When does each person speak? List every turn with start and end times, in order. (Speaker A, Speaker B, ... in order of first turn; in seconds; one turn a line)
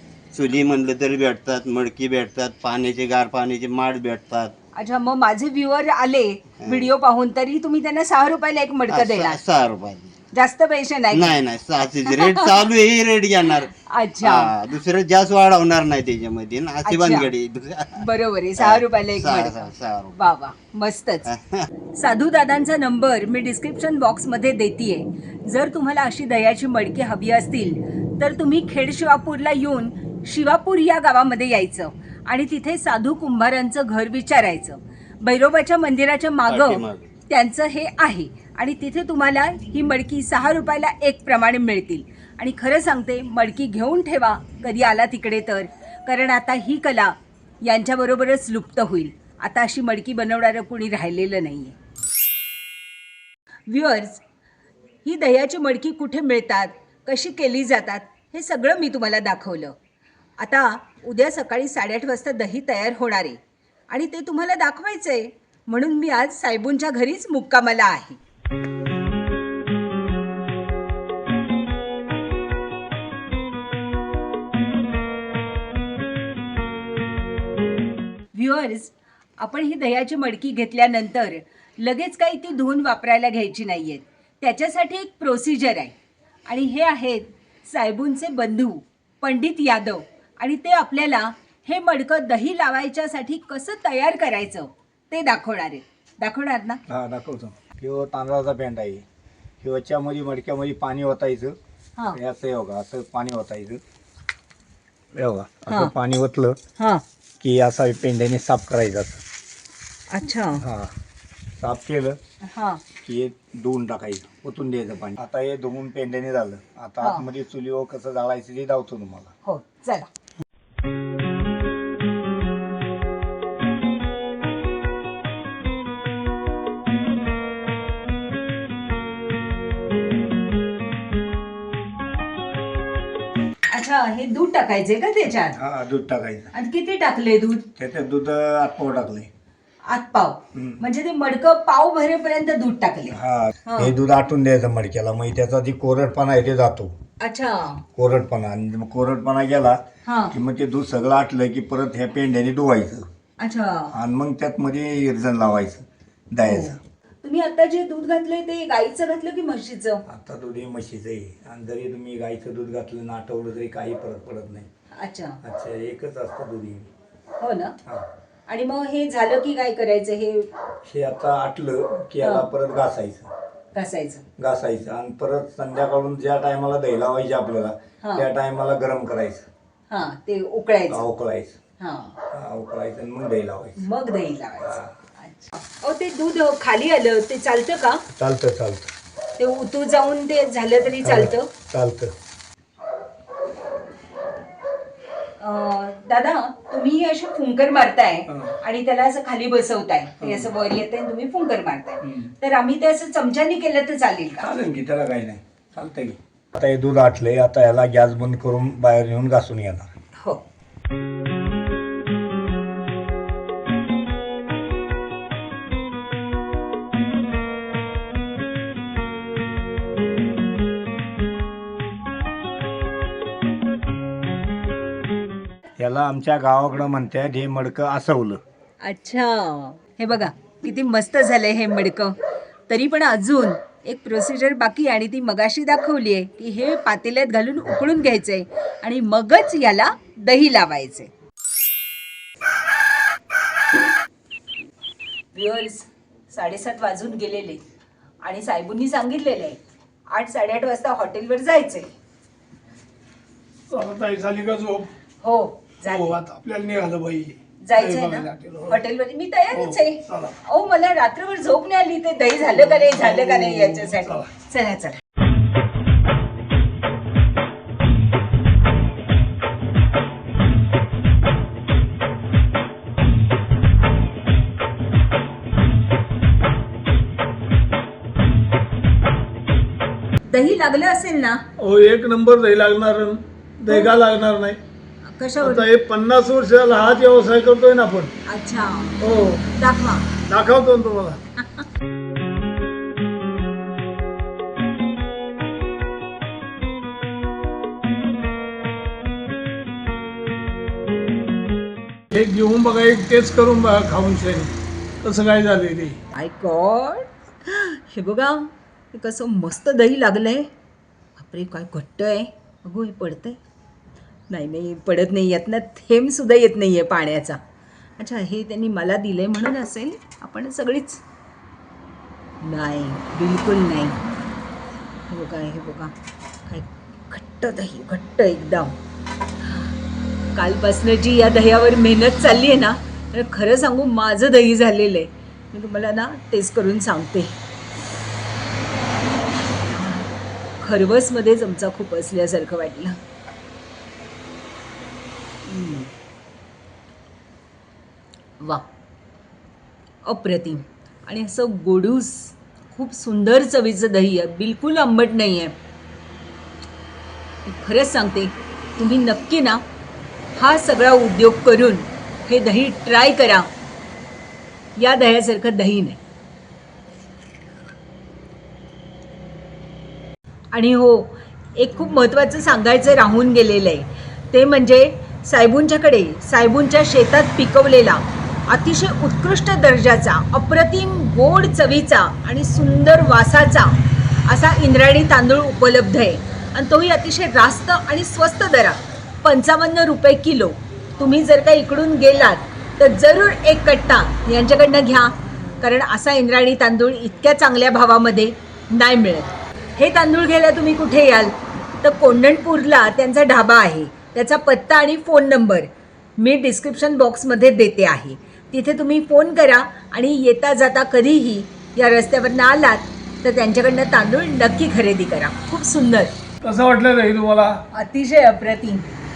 Speaker A: 0.3-4.5
Speaker B: 4.8-9.4
Speaker A: 6.7-6.9
Speaker A: 8.9-10.2
Speaker B: 10.3-11.4
Speaker A: 11.1-18.0
Speaker B: 12.1-12.6
Speaker B: 13.5-14.5
Speaker B: 16.9-17.3
Speaker B: 17.9-21.3
Speaker A: 18.6-20.2
Speaker A: 21.3-21.7
Speaker B: 21.9-51.8
Speaker A: 36.5-37.1
Speaker B: 53.7-54.2
Speaker B: 55.0-59.8
Speaker B: 60.4-63.4
Speaker B: 63.9-68.2
Speaker B: 78.3-86.0
Speaker B: 86.5-96.8
Speaker C: 96.9-99.0
Speaker C: 99.6-101.6
Speaker C: 102.1-103.8
Speaker C: 105.1-106.6
Speaker B: 106.8-107.0
Speaker C: 107.4-109.2
Speaker B: 110.1-110.6
Speaker C: 110.6-110.9
Speaker C: 111.6-112.2
Speaker B: 112.5-112.8
Speaker C: 113.0-119.3
Speaker B: 117.0-117.3
Speaker B: 119.4-120.1
Speaker B: 133.7-135.6
Speaker C: 135.6-136.5
Speaker B: 136.5-137.7
Speaker C: 137.8-139.3
Speaker B: 139.9-144.0
Speaker C: 140.5-140.8
Speaker C: 143.1-146.9
Speaker B: 147.2-147.8
Speaker C: 148.0-149.8
Speaker B: 150.1-150.3
Speaker C: 150.3-153.1
Speaker B: 153.4-153.9
Speaker C: 153.9-156.8
Speaker B: 156.4-160.0
Speaker C: 160.1-164.7
Speaker B: 165.0-165.4
Speaker C: 165.4-166.9
Speaker B: 167.4-167.8
Speaker B: 168.5-170.5
Speaker C: 170.9-173.3
Speaker B: 173.7-174.2
Speaker C: 174.4-179.5
Speaker B: 179.9-181.1
Speaker C: 180.9-181.6
Speaker B: 181.8-182.2
Speaker C: 182.3-183.8
Speaker B: 183.8-188.0
Speaker C: 184.6-184.9
Speaker C: 188.1-188.9
Speaker B: 189.4-191.5
Speaker C: 191.0-192.1
Speaker B: 195.4-204.5
Speaker C: 200.2-200.5
Speaker C: 202.0-202.3
Speaker C: 204.4-209.9
Speaker C: 225.8-228.4
Speaker B: 228.8-232.2
Speaker B: 232.7-241.1
Speaker B: 245.3-247.6
Speaker B: 248.2-249.6
Speaker B: 250.1-251.9
Speaker D: 253.7-254.9
Speaker B: 255.2-256.2
Speaker D: 255.9-258.8
Speaker B: 257.6-265.0
Speaker D: 259.5-260.4
Speaker D: 262.6-264.2
Speaker B: 280.3-281.4
Speaker D: 281.6-284.6
Speaker B: 285.1-285.7
Speaker D: 285.4-288.1
Speaker B: 288.3-289.0
Speaker D: 289.0-289.5
Speaker B: 289.6-290.1
Speaker D: 290.3-291.2
Speaker B: 291.4-291.7
Speaker D: 302.1-306.0
Speaker B: 306.1-310.5
Speaker B: 311.2-313.4
Speaker B: 314.3-317.4
Speaker B: 318.0-321.0
Speaker B: 322.4-324.0
Speaker B: 325.1-325.9
Speaker B: 326.5-328.8
Speaker B: 329.4-329.8
Speaker B: 330.4-337.4
Speaker B: 339.7-343.0
Speaker B: 345.4-345.9
Speaker B: 348.4-348.7
Speaker B: 350.1-355.5
Speaker B: 357.4-359.6
Speaker B: 360.4-363.5
Speaker B: 364.8-366.0
Speaker B: 370.5-383.8
Speaker B: 384.3-416.1
Speaker D: 416.4-417.6
Speaker B: 417.7-418.9